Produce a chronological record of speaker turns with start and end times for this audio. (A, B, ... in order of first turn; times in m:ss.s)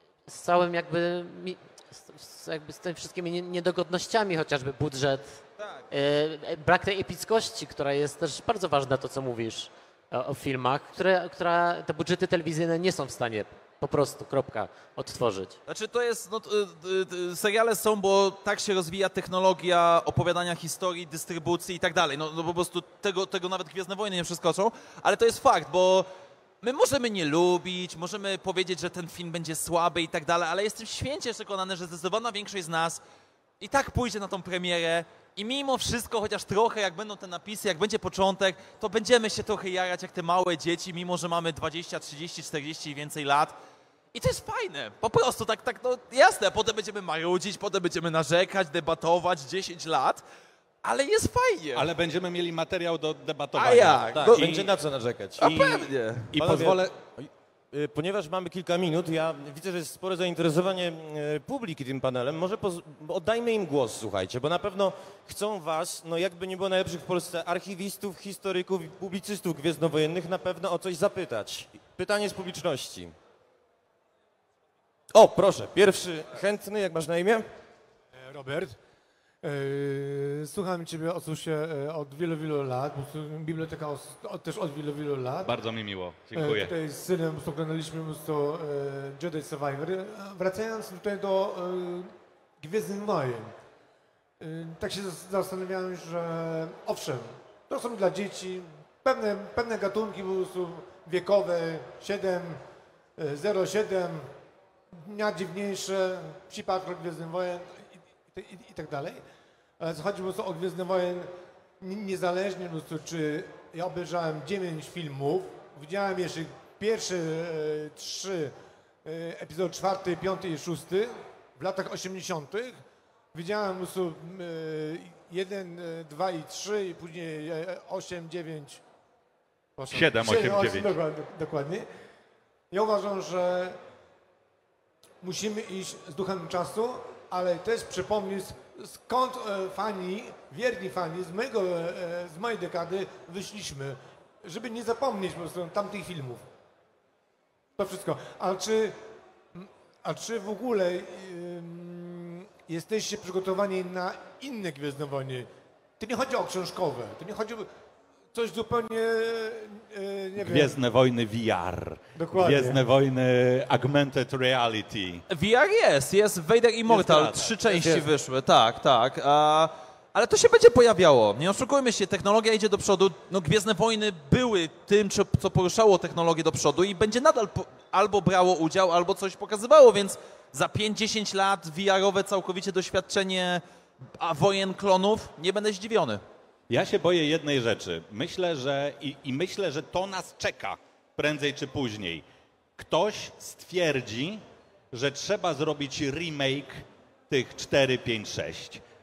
0:00.3-0:15.6 A
0:15.7-0:26.1 B
0:26.6-0:33.0 B
0:33.6-0:43.5 B
0:44.1-0:50.2 B
0:50.8-0:51.9 B
0:51.7-0:54.5 C
0:53.5-0:54.7 B
0:54.1-1:13.1 D
0:55.4-0:56.6 B
0:56.3-0:56.9 C
1:15.1-1:17.4 D
1:18.1-1:18.8 E
1:19.4-1:25.5 E
1:25.4-1:26.7 C
1:26.3-1:33.5 E
1:34.4-1:42.6 E
1:43.2-1:44.3 E
1:44.9-1:49.2 E
1:49.8-1:51.3 E
1:51.8-2:08.8 E
2:09.8-2:11.8 E
2:09.9-2:10.9 C
2:12.7-2:13.8 E
2:15.2-2:26.4 E
2:27.8-2:29.0 E
2:29.5-2:35.5 E
2:36.0-2:37.7 E
2:38.3-2:40.7 E
2:40.4-2:45.2 C
2:42.1-2:42.8 E
2:45.3-3:03.6 B
2:46.9-2:48.0 E
3:04.2-3:06.2 B
3:06.7-3:12.2 C
3:12.8-3:18.8 C